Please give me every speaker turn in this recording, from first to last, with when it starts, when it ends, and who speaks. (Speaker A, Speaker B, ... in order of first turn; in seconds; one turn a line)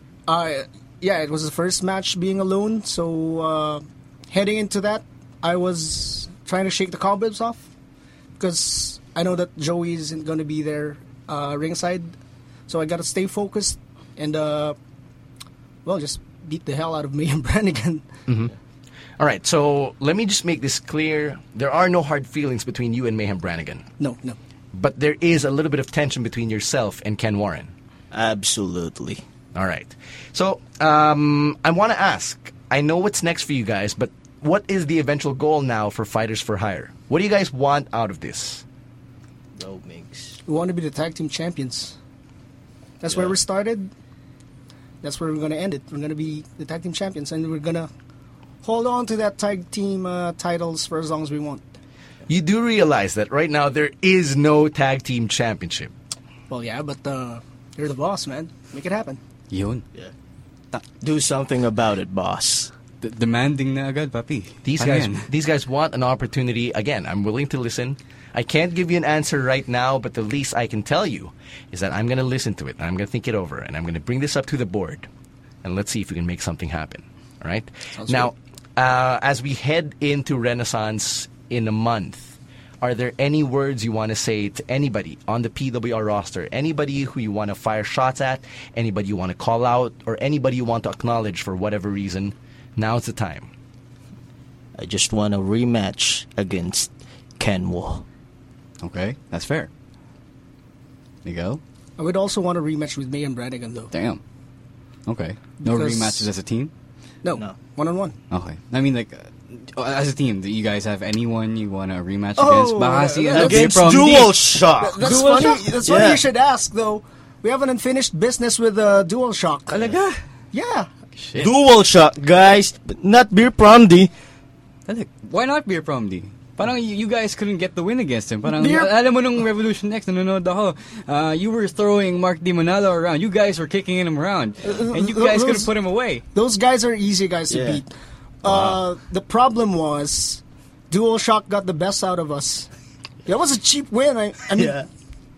Speaker A: 0.3-7.6
Speaker A: 8.4-12.1
Speaker A: 12.7-14.8
Speaker A: 15.8-18.1
Speaker B: 18.3-18.5
Speaker B: 19.2-23.8
Speaker A: 24.0-24.4
Speaker B: 24.7-27.7
Speaker C: 28.1-29.2
Speaker B: 29.5-38.6
Speaker C: 39.5-40.4
Speaker A: 40.5-41.9
Speaker A: 43.0-43.9
Speaker A: 45.0-47.9
Speaker A: 48.6-51.6
Speaker B: 52.3-55.9
Speaker A: 56.5-59.2
Speaker D: 59.5-59.8
Speaker C: 61.0-62.7
Speaker D: 63.0-65.3
Speaker B: 64.6-75.1
Speaker B: 75.6-93.5
Speaker A: 78.0-78.3
Speaker C: 94.8-98.0
Speaker D: 98.8-99.7
Speaker D: 101.2-101.6
Speaker A: 102.0-103.9
Speaker D: 103.9-104.2
Speaker D: 105.0-106.7
Speaker A: 105.6-106.2
Speaker A: 107.2-108.2
Speaker C: 107.3-107.6
Speaker D: 108.3-114.4
Speaker A: 112.4-113.9
Speaker C: 113.3-116.2
Speaker A: 114.8-119.8
Speaker D: 115.0-115.7
Speaker D: 119.7-120.2
Speaker A: 120.5-120.9
Speaker D: 121.2-121.5
Speaker C: 121.4-124.1
Speaker D: 124.9-136.2
Speaker A: 128.4-128.9
Speaker A: 134.6-135.7
Speaker A: 136.3-137.9
Speaker C: 137.5-137.8
Speaker A: 138.4-142.7
Speaker D: 138.5-138.8
Speaker A: 143.2-144.8
Speaker C: 144.5-144.9